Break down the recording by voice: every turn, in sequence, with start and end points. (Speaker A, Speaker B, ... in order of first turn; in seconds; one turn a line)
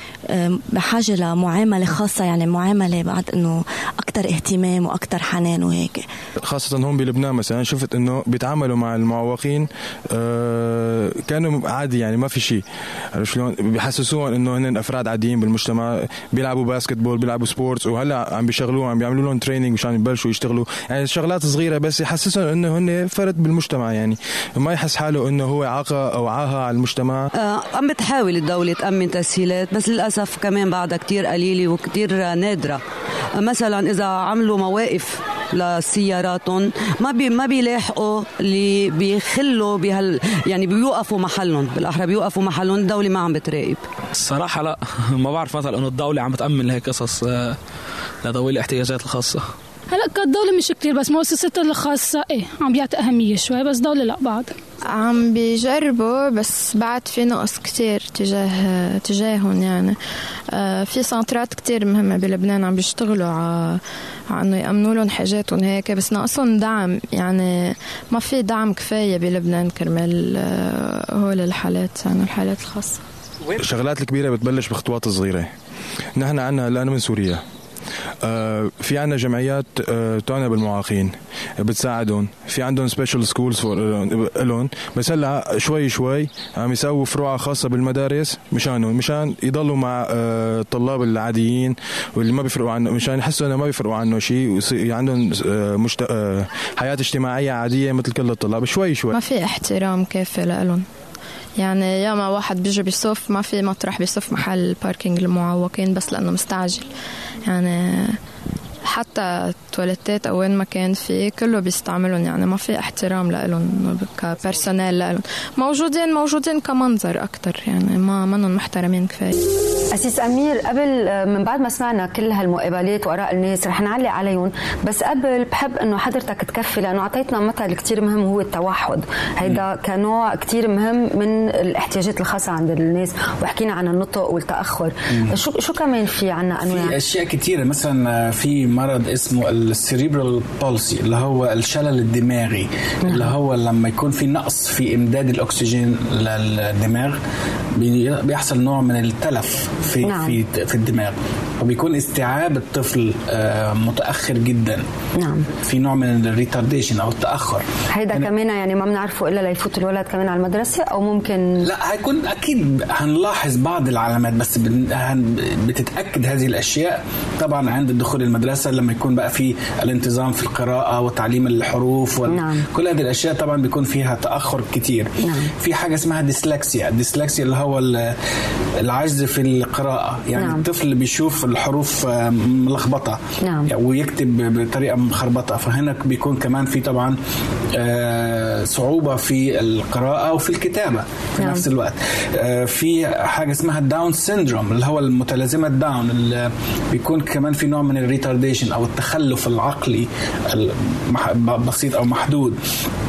Speaker A: 0.3-6.0
Speaker B: 6.4-12.6
Speaker B: 13.1-27.3
Speaker C: 27.4-32.8
Speaker C: 33.4-43.8
Speaker D: 44.1-47.6
Speaker D: 48.2-49.5
Speaker E: 49.9-54.6
Speaker F: 54.9-60.0
Speaker F: 60.5-73.0
Speaker B: 73.5-75.5
Speaker B: 76.1-77.4
Speaker B: 78.2-99.1
Speaker F: 99.1-100.8
Speaker F: 101.6-106.9
Speaker F: 107.5-108.2
Speaker F: 108.8-119.3
Speaker G: 119.9-136.9
Speaker H: 136.7-147.2
Speaker G: 143.1-143.3
Speaker H: 147.8-154.8
Speaker G: 150.0-150.3
Speaker G: 155.2-155.5
Speaker H: 155.6-158.3
Speaker G: 157.9-161.6
Speaker H: 161.6-178.2
Speaker G: 172.3-172.6
Speaker G: 175.2-175.5
Speaker H: 178.8-187.2
Speaker G: 180.3-180.6
Speaker G: 183.4-183.7
Speaker H: 187.7-202.6